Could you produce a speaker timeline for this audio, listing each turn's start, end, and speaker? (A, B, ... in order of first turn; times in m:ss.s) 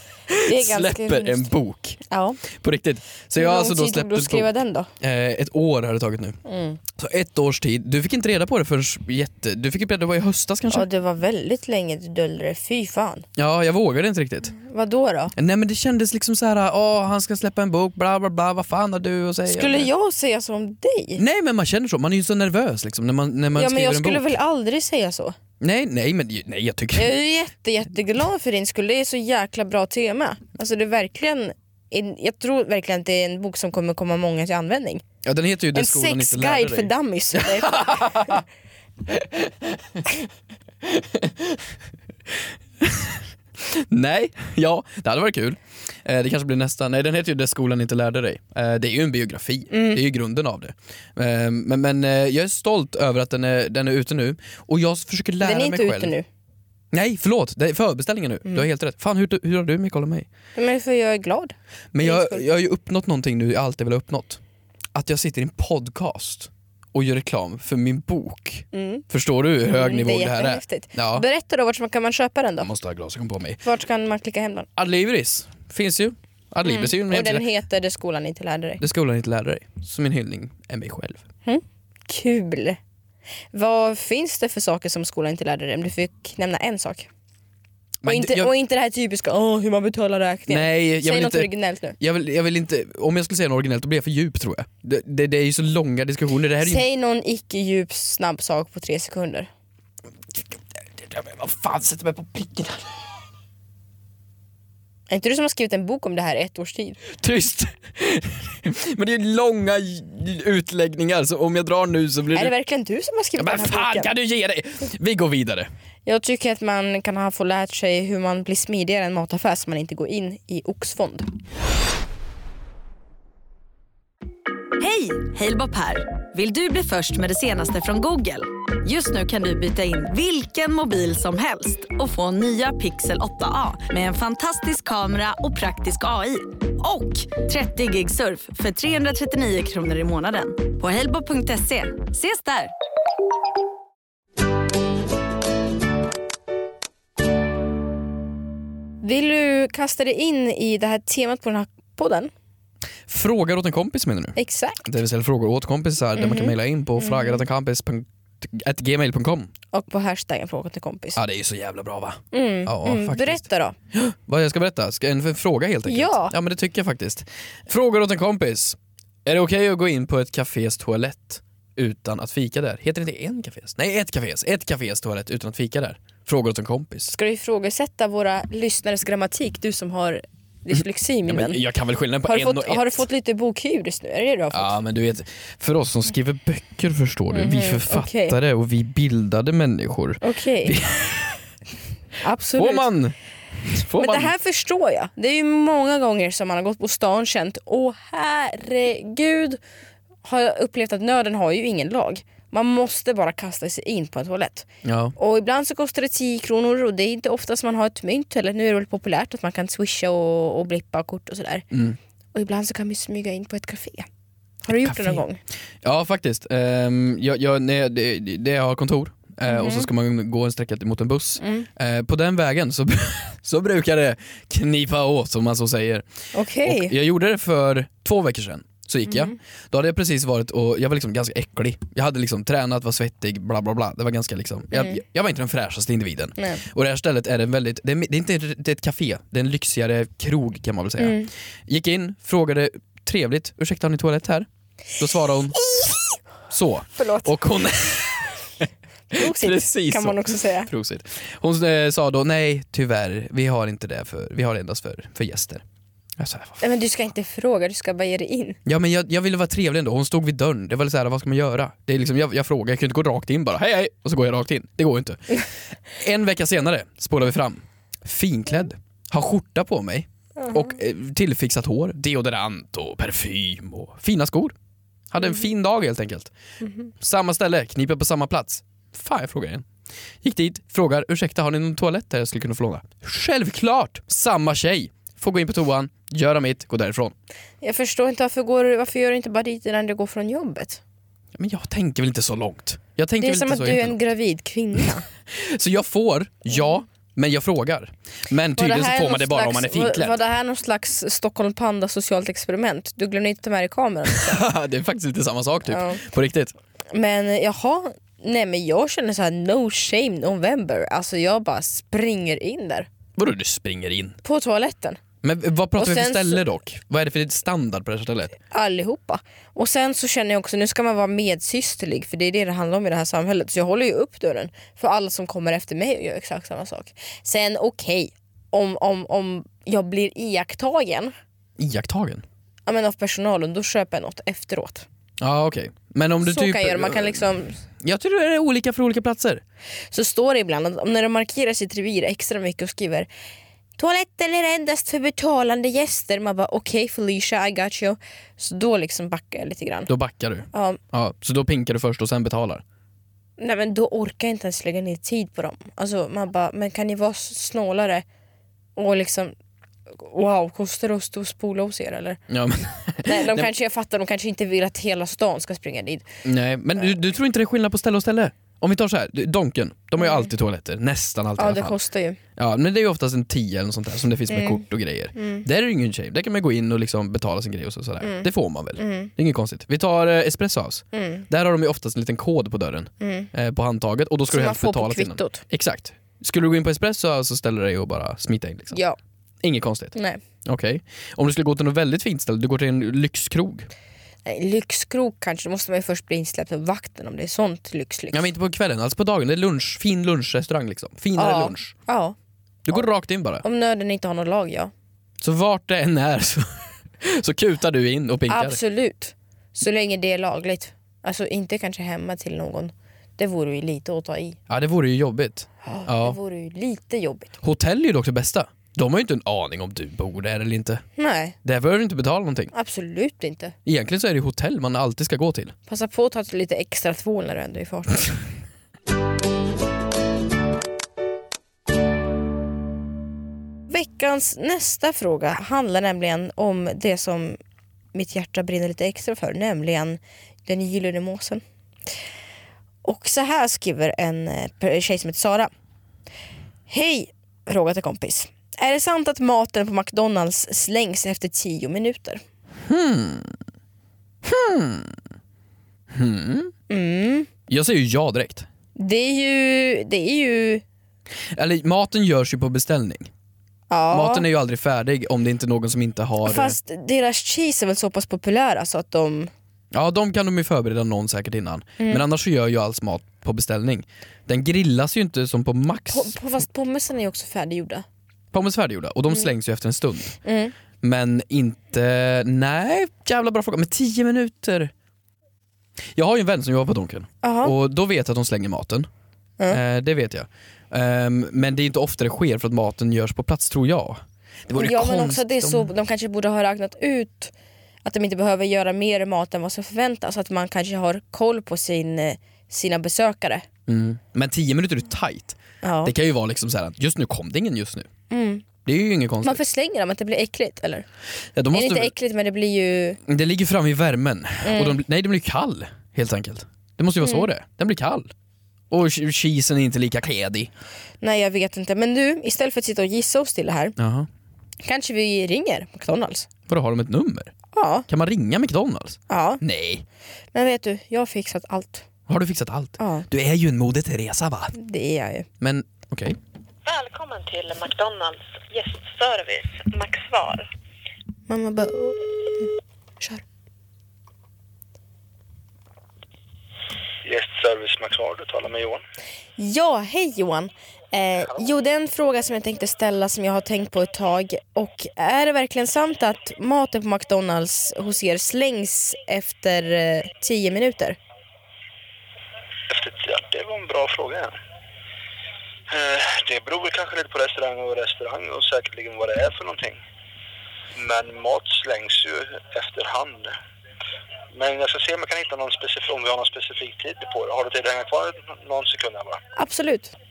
0:00.3-0:04.5 A
0:00.4-0:01.5 B
0:02.1-0:02.4 B
0:03.4-0:04.9 B
0:05.0-0:06.4 A
0:06.5-0:06.8 B
0:07.0-0:10.9 A
0:10.7-0:13.2 B
0:13.4-0:14.5 A
0:14.5-0:15.3 B
0:15.4-0:19.9 A
0:19.5-0:21.2 B
0:21.2-0:24.3 A
0:23.6-0:25.4 B
0:25.6-0:27.1 A
0:27.0-0:35.0 B
0:35.2-0:38.4 A
0:35.7-0:38.4 B
0:39.1-0:40.1 A
0:40.8-0:41.7 A
0:42.3-0:56.2 A
0:49.7-0:50.0 B
0:55.4-0:56.3 B
0:56.9-1:00.3 A
1:00.6-1:02.4 B
1:01.9-1:04.4 A
1:05.0-1:11.3 A
1:08.7-1:09.0 B
1:09.7-1:12.7 B
1:12.6-1:13.6 A
1:13.6-1:14.7 B
1:14.8-1:17.4 A
1:16.6-1:18.8 B
1:18.8-1:21.2 A
1:21.4-1:22.8 B
1:23.5-1:27.1 B
1:28.0-1:28.5 A
1:28.1-1:32.0 B
1:30.5-1:36.8 A
1:36.6-1:39.5 B
1:41.0-1:42.9 A
1:45.1-1:47.0 B
1:47.1-1:52.5 A
1:52.3-1:54.1 B
1:53.4-1:55.7 A
1:56.1-2:01.3 B
2:04.8-2:22.7 C
2:29.0-2:32.3 B
2:33.1-2:39.5 A
2:34.4-2:34.8 B
2:36.2-2:37.4 B
2:39.7-2:41.2 B
2:41.2-2:57.1 A
2:42.3-2:43.8 B
2:45.9-2:46.3 B
2:57.1-3:01.6 B
3:01.3-3:03.0 A
3:02.2-3:04.8 B
3:04.5-3:11.4 A
3:07.3-3:08.4 B
3:10.2-3:10.8 B
3:12.2-3:12.9 B
3:12.6-3:14.3 A
3:14.0-3:19.6 B
3:20.2-3:31.6 B
3:24.8-3:25.1 A
3:31.7-3:32.0 A
3:32.3-3:34.1 B
3:34.6-3:35.4 B
3:34.8-3:35.2 A
3:35.8-3:46.1 A
3:39.5-3:39.9 B
3:41.4-3:41.7 B
3:46.3-3:47.0 B
3:46.6-4:05.6 A
3:49.1-3:49.4 B
3:54.7-3:55.0 B
4:01.0-4:01.3 B
4:05.6-4:06.2 B
4:06.5-4:08.4 A
4:07.0-4:07.3 B
4:09.1-4:10.7 B
4:09.1-4:15.6 A
4:16.2-4:16.6 A
4:16.6-4:18.6 B
4:18.7-4:34.6 A
4:30.4-4:30.7 B
4:35.1-4:36.3 A
4:37.0-4:39.7 A
4:40.2-4:47.2 A
4:47.6-4:50.8 B
4:51.4-4:54.0 A
4:53.2-4:55.0 B
4:55.3-5:00.2 A
4:58.6-5:04.4 B
5:04.1-5:06.5 A
5:05.7-5:06.0 B
5:06.9-5:12.9 B
5:13.2-5:14.2 A
5:14.2-5:15.0 B
5:15.2-5:18.3 A
5:15.8-5:16.5 B
5:18.5-5:31.1 B
5:31.6-5:32.2 A
5:32.7-5:34.9 B
5:35.2-5:37.2 A
5:36.2-5:37.6 B
5:37.8-5:39.4 A
5:39.9-5:43.1 B
5:43.8-5:49.9 B
5:49.9-5:52.6 A
5:50.5-5:50.8 B
5:53.4-5:58.0 B
5:58.8-5:59.3 B
5:59.9-6:02.2 B
6:02.3-6:03.5 A
6:03.0-6:06.1 B
6:06.2-6:11.8 A
6:10.0-6:10.3 B
6:11.4-6:12.2 B
6:12.4-6:28.8 A
6:14.3-6:14.6 B
6:15.2-6:15.4 B
6:18.0-6:19.1 B
6:20.9-6:21.3 B
6:23.0-6:23.3 B
6:24.3-6:25.4 B
6:28.7-6:29.0 B
6:29.4-6:33.7 A
6:29.9-6:30.2 B
6:34.2-6:38.3 B
6:38.1-6:41.7 A
6:41.2-6:42.2 B
6:42.6-6:43.4 A
6:43.4-6:44.7 B
6:45.2-6:48.6 A
6:48.3-6:54.4 B
6:54.5-6:56.2 A
6:55.6-6:57.4 B
6:57.4-7:00.8 A
7:01.0-7:01.4 B
7:01.4-7:02.5 A
7:02.5-7:03.5 B
7:03.6-7:05.5 A
7:05.7-7:08.2 B
7:13.7-7:17.4 B
7:17.9-7:21.4 B
7:22.8-7:25.5 B
7:26.7-7:32.2 B
7:32.7-7:33.4 A
7:34.2-7:35.0 A
7:35.9-7:36.5 A
7:36.7-7:37.3 B
7:37.5-7:38.5 A
7:38.8-7:40.6 B
7:41.3-7:43.1 A
7:43.7-7:44.3 B
7:43.9-7:46.6 A
7:46.2-7:49.3 B
7:49.7-7:56.2 A
7:55.9-7:57.8 B
7:58.3-8:00.2 A
8:00.2-8:00.5 B
8:00.8-8:04.7 A
8:05.9-8:08.9 A
8:07.2-8:07.6 B
8:09.5-8:15.7 A
8:14.6-8:17.3 B
8:17.8-8:23.5 B
8:23.7-8:27.9 A
8:25.6-8:25.9 B
8:28.1-8:28.5 B
8:28.6-8:29.4 A
8:29.2-8:30.9 B
8:31.4-8:31.9 A
8:31.5-8:33.0 B
8:33.1-8:38.1 A
8:34.4-8:34.8 B
8:37.0-8:37.3 B
8:38.7-8:40.5 A
8:41.0-8:43.8 B
8:43.8-8:44.1 A
8:44.6-8:46.3 B
8:46.5-8:47.3 A
8:47.5-8:47.9 B
8:47.9-8:49.8 A
8:49.1-8:49.4 B
8:50.3-8:51.9 B
8:52.1-8:54.5 A
8:52.8-8:53.1 B
8:54.6-8:55.3 B
8:55.4-8:56.2 A
8:56.7-9:00.5 D
9:01.3-9:02.5 B
9:07.0-9:08.8 E
9:09.4-9:21.0 B
9:22.7-9:24.4 E
9:25.7-9:29.8 E
9:30.8-9:33.4 E
9:34.3-9:39.2 E
9:39.4-9:39.9 B